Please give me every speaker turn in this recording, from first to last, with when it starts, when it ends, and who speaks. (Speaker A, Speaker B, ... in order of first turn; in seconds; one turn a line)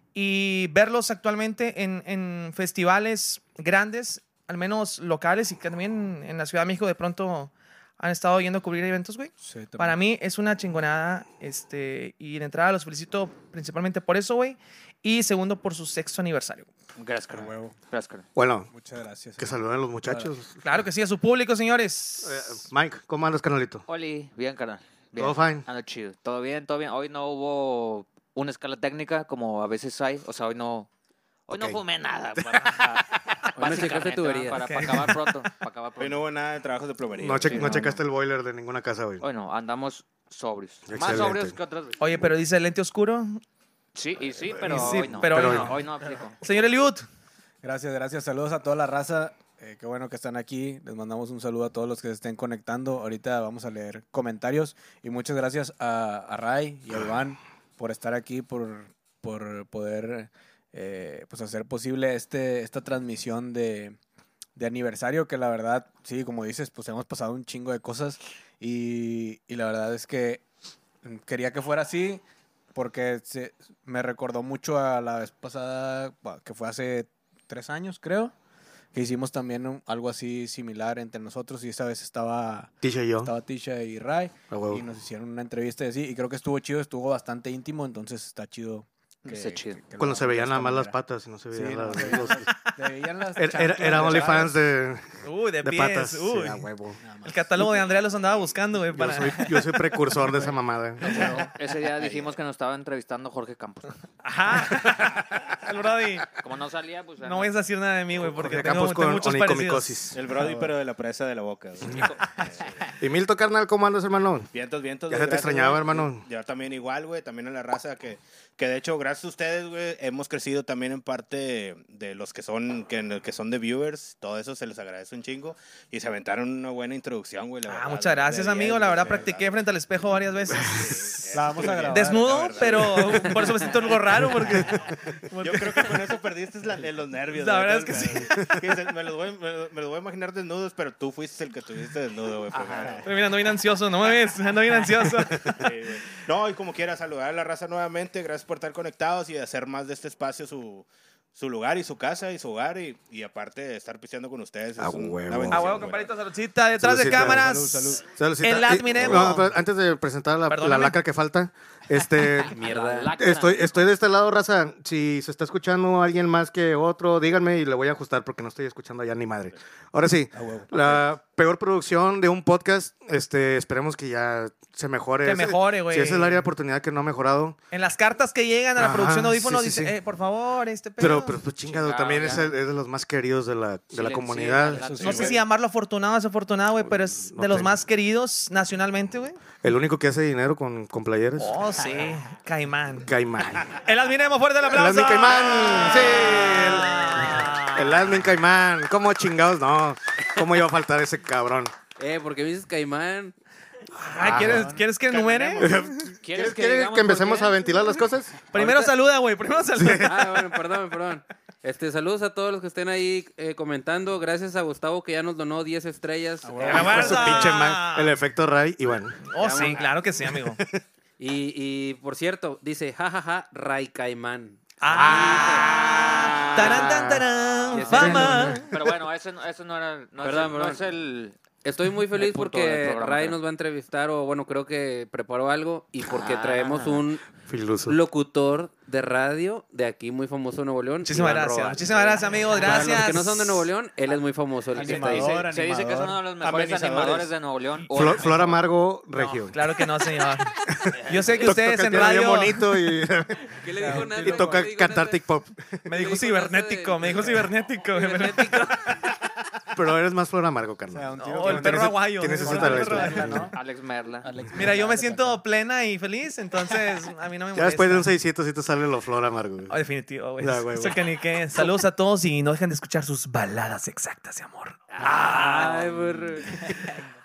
Speaker A: 0.1-16.7
Speaker B: 9.4-10.0
Speaker C: 17.0-18.3
Speaker B: 17.3-17.8
Speaker D: 18.4-18.7
Speaker B: 18.7-20.3
Speaker D: 19.4-20.6
Speaker A: 20.6-22.6
Speaker D: 22.2-23.8
Speaker C: 23.9-30.9
Speaker D: 25.2-25.6
Speaker C: 31.5-36.2
Speaker D: 31.5-31.8
Speaker E: 33.6-34.9
Speaker A: 34.7-35.1
Speaker F: 36.0-37.9
Speaker D: 37.1-39.2
Speaker C: 37.4-38.0
Speaker C: 39.2-42.0
Speaker D: 40.9-41.6
Speaker A: 42.0-43.4
Speaker C: 44.0-46.4
Speaker D: 44.5-45.8
Speaker A: 44.7-45.8
Speaker A: 46.4-47.0
Speaker B: 47.6-64.0
Speaker B: 64.6-70.4
Speaker B: 71.0-72.2
Speaker B: 72.8-78.3
Speaker B: 78.9-91.0
Speaker D: 82.8-83.3
Speaker D: 84.5-84.8
Speaker C: 89.3-89.8
Speaker D: 90.0-92.5
Speaker B: 91.5-94.6
Speaker D: 93.4-97.0
Speaker A: 95.2-96.7
Speaker B: 97.0-97.5
Speaker A: 97.3-99.5
Speaker D: 98.9-101.3
Speaker B: 99.3-99.7
Speaker C: 101.0-104.0
Speaker B: 101.1-101.5
Speaker A: 104.2-106.3
Speaker C: 106.4-107.6
Speaker A: 107.2-110.1
Speaker D: 108.2-110.2
Speaker F: 110.1-112.8
Speaker B: 110.3-110.7
Speaker D: 113.0-114.5
Speaker F: 114.5-129.5
Speaker D: 115.1-116.2
Speaker A: 127.7-131.2
Speaker F: 130.6-133.7
Speaker B: 131.3-132.8
Speaker A: 131.9-136.0
Speaker D: 134.4-134.9
Speaker F: 135.4-143.1
Speaker A: 137.3-138.5
Speaker C: 142.5-143.0
Speaker A: 143.0-145.5
Speaker D: 145.2-145.7
Speaker F: 145.4-156.1
Speaker D: 154.8-155.9
Speaker A: 155.5-159.5
Speaker D: 156.8-162.6
Speaker B: 156.9-158.1
Speaker B: 159.2-159.5
Speaker A: 160.5-161.0
Speaker C: 162.5-163.9
Speaker E: 162.5-163.1
Speaker D: 163.2-177.6
Speaker B: 170.3-171.0
Speaker A: 175.2-176.4
Speaker A: 177.7-181.4
Speaker D: 178.8-179.9
Speaker D: 181.0-185.1
Speaker C: 181.6-182.5
Speaker C: 183.9-185.4
Speaker B: 184.8-185.4
Speaker A: 185.0-189.4
Speaker D: 186.9-187.8
Speaker D: 189.6-191.6
Speaker A: 191.4-193.1
Speaker D: 193.0-193.8
Speaker A: 193.7-198.0
Speaker D: 194.7-201.7
Speaker E: 202.0-203.3
Speaker A: 203.9-205.9
Speaker D: 204.2-204.7
Speaker F: 205.1-205.6
Speaker C: 205.1-205.6
Speaker D: 205.6-208.5
Speaker C: 206.2-207.8
Speaker A: 208.5-210.4
Speaker E: 208.6-208.9
Speaker D: 209.8-210.1
Speaker E: 210.0-217.4
Speaker B: 216.4-217.4
Speaker A: 216.6-218.1
Speaker D: 216.7-219.2
Speaker A: 219.3-220.6
Speaker E: 219.4-219.9
Speaker D: 220.3-220.8
Speaker E: 221.2-225.9
Speaker A: 224.8-228.8
Speaker D: 224.9-227.3
Speaker E: 227.7-228.6
Speaker D: 227.9-228.6
Speaker C: 228.6-231.4
Speaker E: 230.2-230.8
Speaker E: 231.6-237.3
Speaker C: 232.2-233.4
Speaker C: 236.0-237.0
Speaker D: 237.5-238.0
Speaker E: 237.9-245.4
Speaker A: 241.1-243.7
Speaker B: 244.7-246.2
Speaker C: 244.8-248.6
Speaker F: 246.4-247.3
Speaker D: 247.9-249.9
Speaker A: 249.2-250.6
Speaker D: 250.7-255.8
Speaker A: 251.1-252.7
Speaker E: 253.6-255.2
Speaker B: 253.8-254.7
Speaker A: 255.9-258.9
Speaker E: 255.9-258.9
Speaker D: 259.7-263.5
Speaker B: 260.9-263.6
Speaker A: 261.2-263.3
Speaker C: 263.3-264.3
Speaker B: 264.2-265.4
Speaker A: 264.6-268.1
Speaker D: 267.6-269.8
Speaker A: 269.7-274.9
Speaker D: 270.4-271.0
Speaker E: 274.9-277.0
Speaker C: 275.0-276.7